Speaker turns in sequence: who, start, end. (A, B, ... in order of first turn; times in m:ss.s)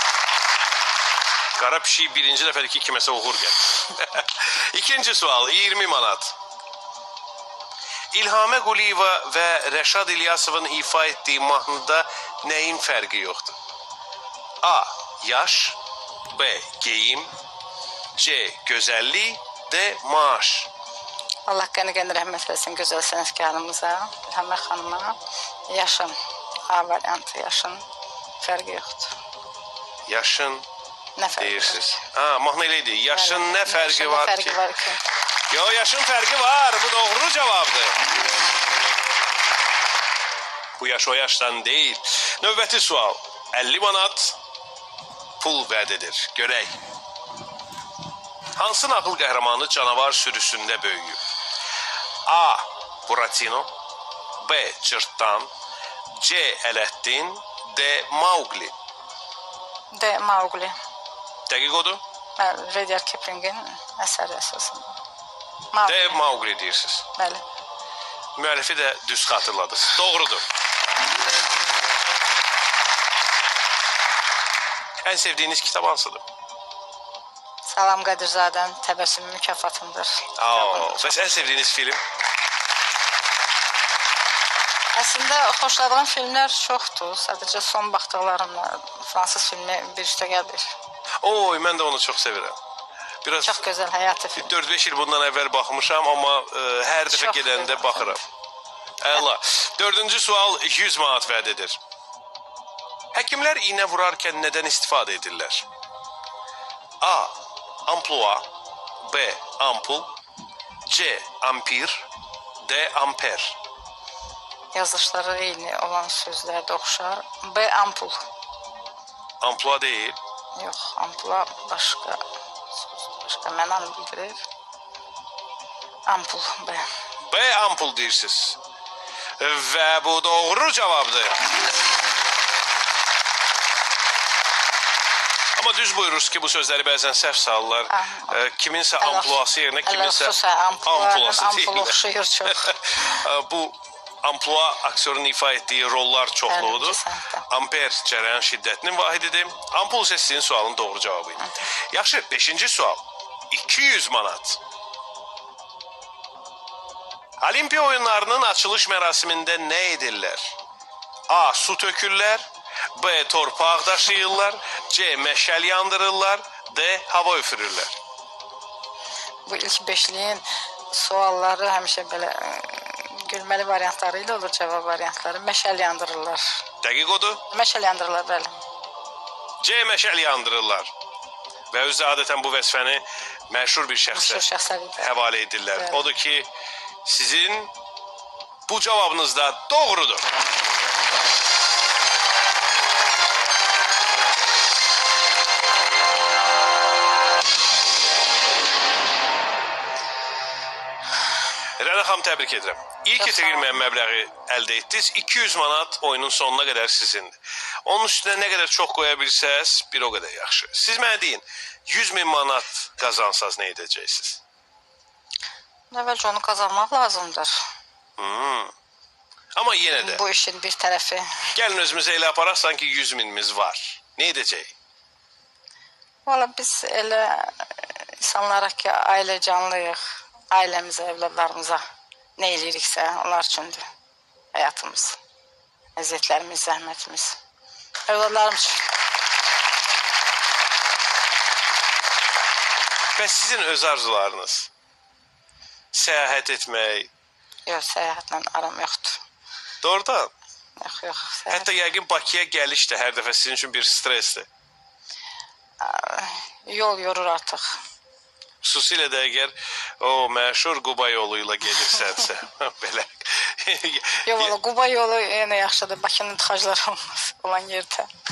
0:01.6-0:06.3 A
0:08.1-0:13.6 A
0:14.6-0:15.8 A
0:16.3-0:17.3 A
0:18.2-0:20.7 A
0:21.5-0:25.2 B
0:25.7-0:26.2 B
0:26.7-0:27.8 B
0:28.4-0:29.1 B
0:30.1-0:30.7 A
0:31.2-0:32.0 B
0:31.4-0:34.6 A
0:33.1-0:35.0 B
0:35.5-0:38.0 A
0:40.8-0:44.4 A
0:45.4-0:46.8 A
0:48.6-0:51.2 A
0:52.2-0:53.7 A
0:54.4-0:55.5 A
0:56.1-0:58.7 A
0:59.9-1:00.8 B
1:01.5-1:02.0 A
1:02.4-1:05.0 B
1:05.7-1:06.2 B
1:05.8-1:07.1 A
1:07.2-1:07.4 B
1:08.4-1:10.4 A
1:15.0-1:16.2 A
1:17.6-1:21.5 B
1:20.4-1:22.0 A
1:24.9-1:30.7 B
1:31.2-1:32.6 A
1:33.2-1:33.6 A
1:33.4-1:34.5 B
1:34.4-1:38.2 A
1:37.1-1:38.2 B
1:39.0-1:41.8 A
1:43.1-1:45.6 A
1:47.0-1:48.5 A
1:49.0-1:50.1 A
1:50.8-1:52.1 A
1:52.6-1:53.6 A
1:54.7-1:58.2 B
1:59.4-2:00.2 A
2:00.6-2:02.2 B
2:02.7-2:04.4 B
2:06.0-2:06.8 B
2:07.2-2:08.6 A
2:09.4-2:11.4 A
2:15.6-2:34.6 A
2:17.9-2:18.4 B
2:19.0-2:23.1 B
2:26.5-2:27.4 B
2:37.4-2:40.6 A
2:41.3-2:48.0 A
2:49.4-2:56.6 B
2:56.8-2:57.4 A
2:57.5-2:58.6 B
2:59.6-3:00.9 A
3:01.7-3:04.5 A
3:04.1-3:05.1 B
3:05.0-3:06.5 A
3:05.7-3:06.1 B
3:07.0-3:07.7 A
3:08.7-3:10.3 A
3:21.8-3:34.4 A
3:23.2-3:23.8 B
3:35.9-3:37.5 B
3:38.2-3:38.7 A
3:39.5-3:40.2 A
3:39.9-3:41.4 B
3:41.5-3:44.7 A
3:46.2-3:51.8 B
3:52.4-3:53.8 B
3:54.5-3:55.2 B
3:56.0-3:57.4 B
3:58.1-3:58.8 B
4:03.2-4:04.7 A
4:05.9-4:07.1 A
4:07.6-4:09.2 B
4:09.8-4:10.3 A
4:10.8-4:11.7 B
4:11.5-4:14.5 A
4:15.8-4:17.8 B
4:18.6-4:24.5 A
4:24.3-4:28.1 B